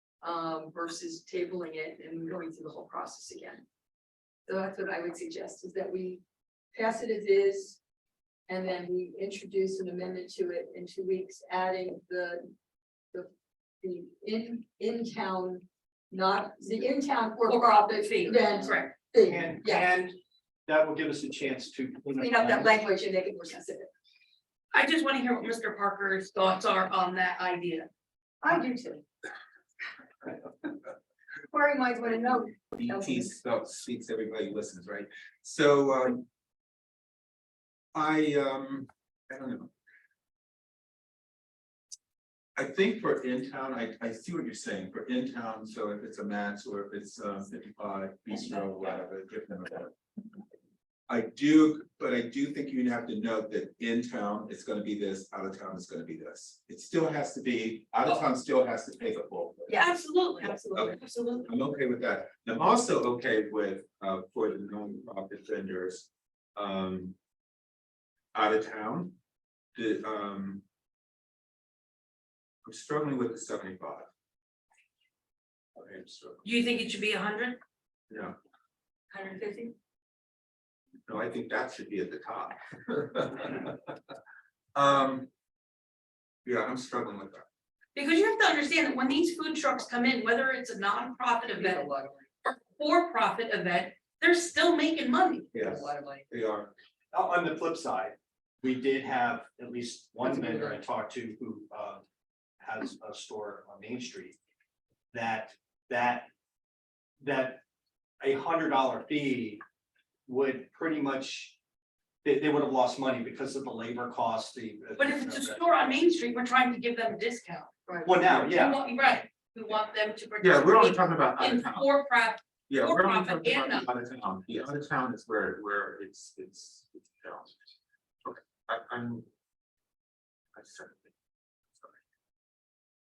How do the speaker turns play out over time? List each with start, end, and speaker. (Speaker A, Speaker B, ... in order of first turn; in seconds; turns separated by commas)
Speaker A: 0.2-3.6, Speaker A: 4.5-6.2, Speaker A: 6.7-7.8, Speaker A: 8.5-12.5, Speaker A: 13.8-19.9, Speaker B: 17.5-19.0, Speaker C: 19.2-22.7, Speaker A: 22.2-23.9, Speaker B: 24.7-27.9, Speaker A: 28.4-29.1, Speaker A: 31.5-33.3, Speaker D: 32.7-36.2, Speaker D: 37.9-39.7, Speaker D: 42.5-49.9, Speaker D: 51.1-59.7, Speaker A: 59.7-61.0, Speaker B: 59.8-61.5, Speaker D: 60.8-67.2, Speaker D: 68.3-69.2, Speaker D: 69.7-70.6, Speaker D: 72.6-74.1, Speaker D: 75.7-76.4, Speaker B: 76.4-77.6, Speaker D: 78.1-78.3, Speaker A: 79.1-79.7, Speaker D: 81.1-83.8, Speaker D: 84.7-85.3, Speaker D: 86.4-87.4, Speaker B: 87.9-91.9, Speaker A: 91.5-92.3, Speaker B: 92.5-95.5, Speaker D: 95.5-96.7, Speaker A: 95.6-96.3, Speaker C: 97.1-102.0, Speaker A: 100.2-100.8, Speaker C: 102.6-104.4, Speaker C: 105.1-106.3, Speaker C: 107.2-107.6, Speaker C: 108.2-109.6, Speaker C: 110.3-111.5, Speaker C: 112.2-115.9, Speaker B: 115.0-123.8, Speaker A: 117.9-118.1, Speaker C: 118.0-118.8, Speaker D: 120.4-121.9, Speaker D: 122.7-127.5, Speaker D: 128.2-129.3, Speaker D: 130.5-131.1